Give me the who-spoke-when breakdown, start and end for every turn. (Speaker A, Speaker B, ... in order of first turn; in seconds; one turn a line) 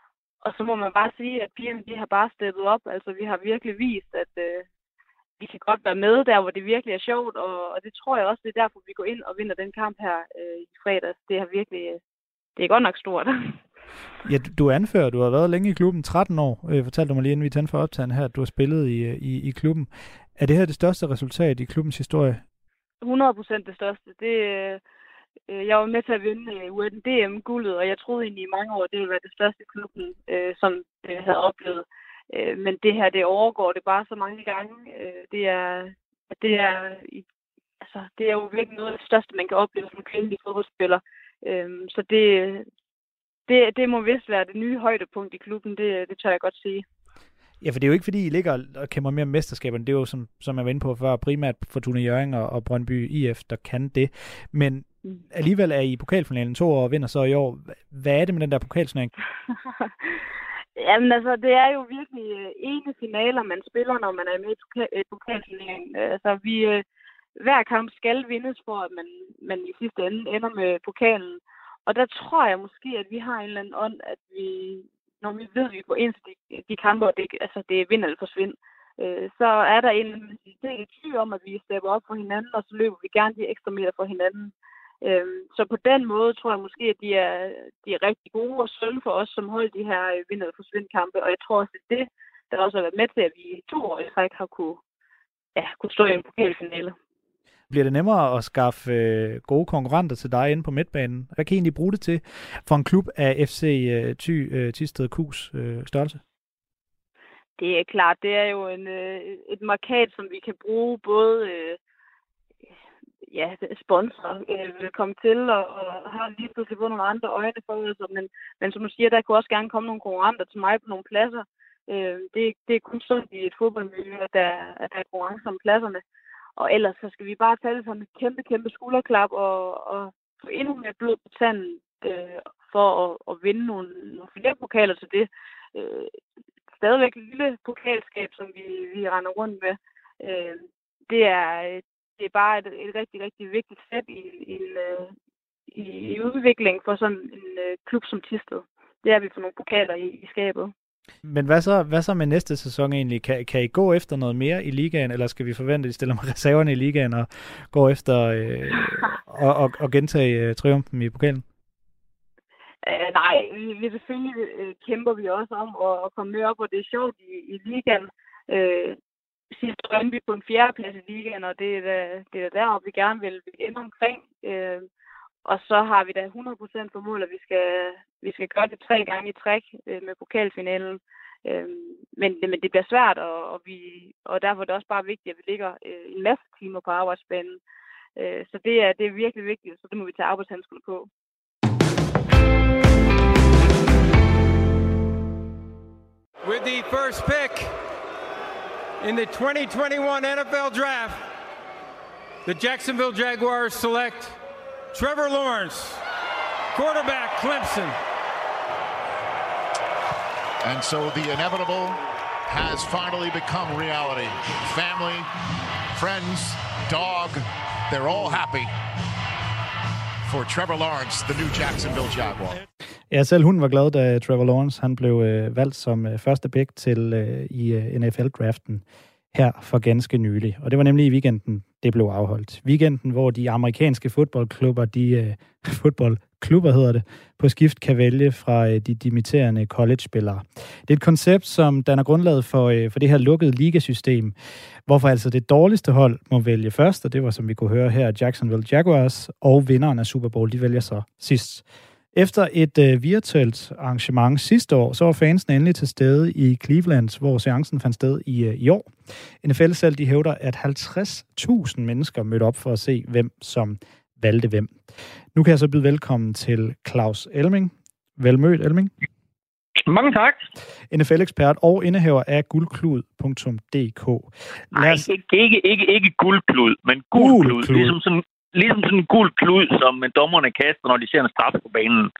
Speaker A: 0.4-4.7
Speaker A: 5.4-12.0
Speaker A: 12.6-13.6
Speaker B: 14.2-22.4
Speaker A: 23.0-24.8
Speaker A: 25.5-37.2
Speaker A: 37.8-42.7
Speaker A: 43.5-46.8
Speaker B: 47.6-59.1
Speaker A: 60.8-66.8
Speaker A: 67.4-94.8
Speaker A: 95.5-96.9
Speaker B: 97.7-106.2
Speaker A: 107.6-111.8
Speaker A: 113.2-126.0
Speaker A: 126.6-136.2
Speaker A: 136.7-145.1
Speaker A: 145.7-150.7
Speaker B: 151.2-161.4
Speaker A: 162.8-169.0
Speaker A: 169.5-174.9
Speaker A: 175.4-187.6
Speaker A: 188.2-191.1
Speaker C: 196.4-197.8
Speaker C: 199.0-201.3
Speaker C: 202.4-204.4
Speaker C: 204.9-206.0
Speaker C: 206.7-208.0
Speaker D: 210.6-215.3
Speaker D: 215.9-218.7
Speaker D: 220.2-222.6
Speaker B: 223.1-258.9
Speaker B: 259.4-264.8
Speaker B: 265.3-268.9
Speaker E: 269.8-270.4
Speaker B: 270.9-275.1
Speaker E: 274.7-282.1
Speaker B: 277.1-277.9